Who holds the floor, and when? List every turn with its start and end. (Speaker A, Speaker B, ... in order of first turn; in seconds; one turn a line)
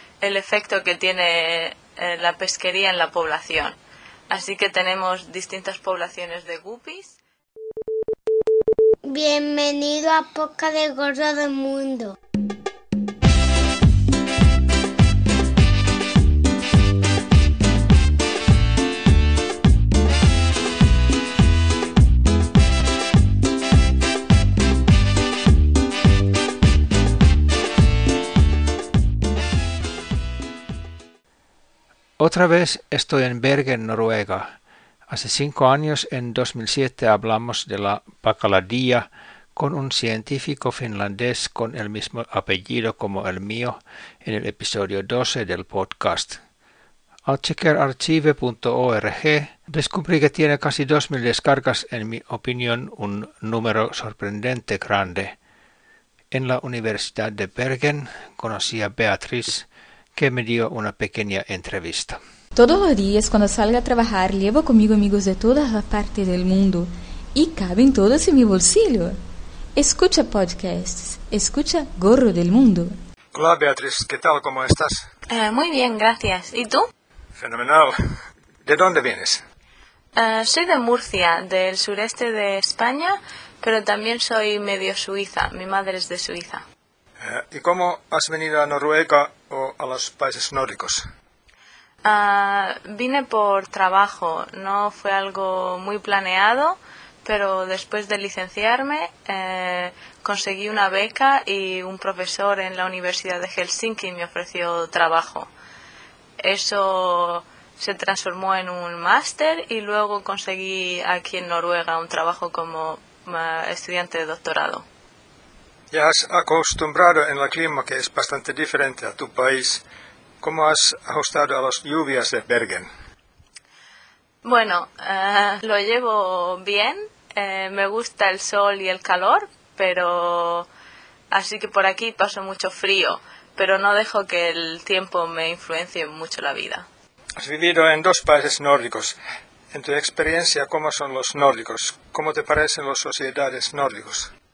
Speaker A: 0.2-3.8
Speaker A: 4.3-7.2
Speaker B: 9.1-12.2
Speaker C: 32.2-34.5
Speaker C: 35.1-46.4
Speaker C: 47.3-55.4
Speaker C: 56.3-62.2
Speaker D: 62.5-69.2
Speaker D: 69.8-72.9
Speaker E: 73.3-75.1
Speaker A: 75.3-76.9
Speaker E: 77.4-78.0
Speaker E: 78.7-79.4
Speaker A: 80.2-86.6
Speaker E: 87.2-91.0
Speaker A: 92.0-105.5
Speaker A: 106.4-114.8
Speaker E: 115.9-119.8
Speaker E: 120.4-122.9
Speaker A: 124.4-130.7
Speaker A: 131.3-136.8
Speaker E: 137.4-139.2
Speaker E: 139.7-144.3